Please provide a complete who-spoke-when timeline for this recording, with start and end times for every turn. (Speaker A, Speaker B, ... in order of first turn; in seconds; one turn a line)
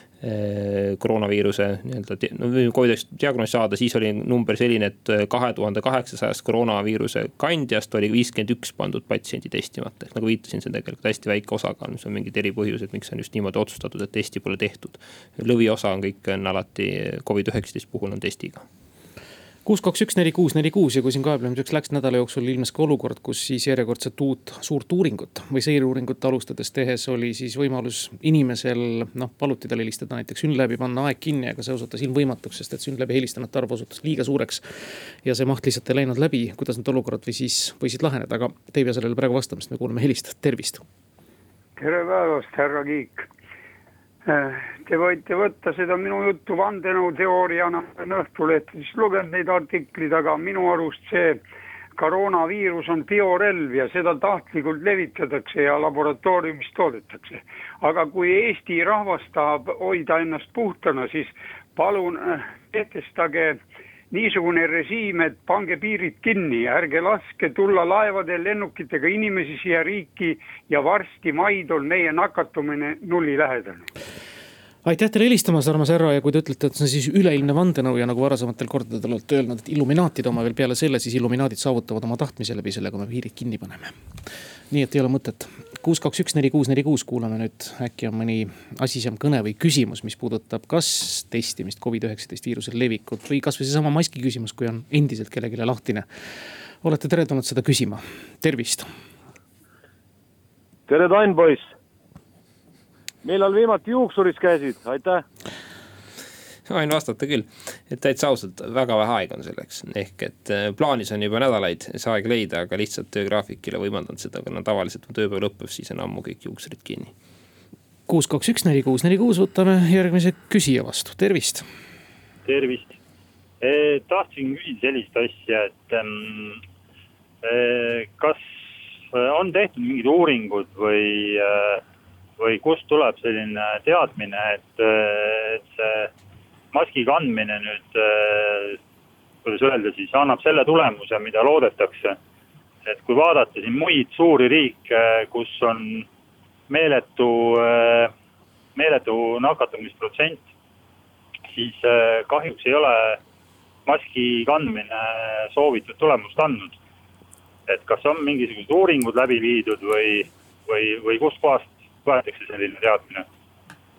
Speaker A: 0.2-18.6
Speaker B: 19.6-34.6
Speaker B: 35.2-40.8
Speaker C: 41.8-43.3
Speaker C: 44.3-51.4
Speaker C: 52.0-63.6
Speaker C: 64.1-73.9
Speaker B: 74.8-84.0
Speaker B: 84.7-96.1
Speaker B: 96.8-98.9
Speaker D: 100.9-101.7
Speaker D: 103.2-105.2
Speaker A: 106.7-117.1
Speaker B: 118.1-121.7
Speaker E: 122.5-123.0
Speaker E: 123.6-126.6
Speaker E: 127.4-131.8
Speaker E: 132.4-136.1
Speaker E: 136.7-138.8
Speaker E: 139.4-142.2
Speaker E: 142.8-146.1
Speaker E: 146.7-148.1
Speaker E: 148.8-150.4
Speaker E: 151.5-153.2
Speaker E: 153.9-156.8
Speaker E: 157.7-163.3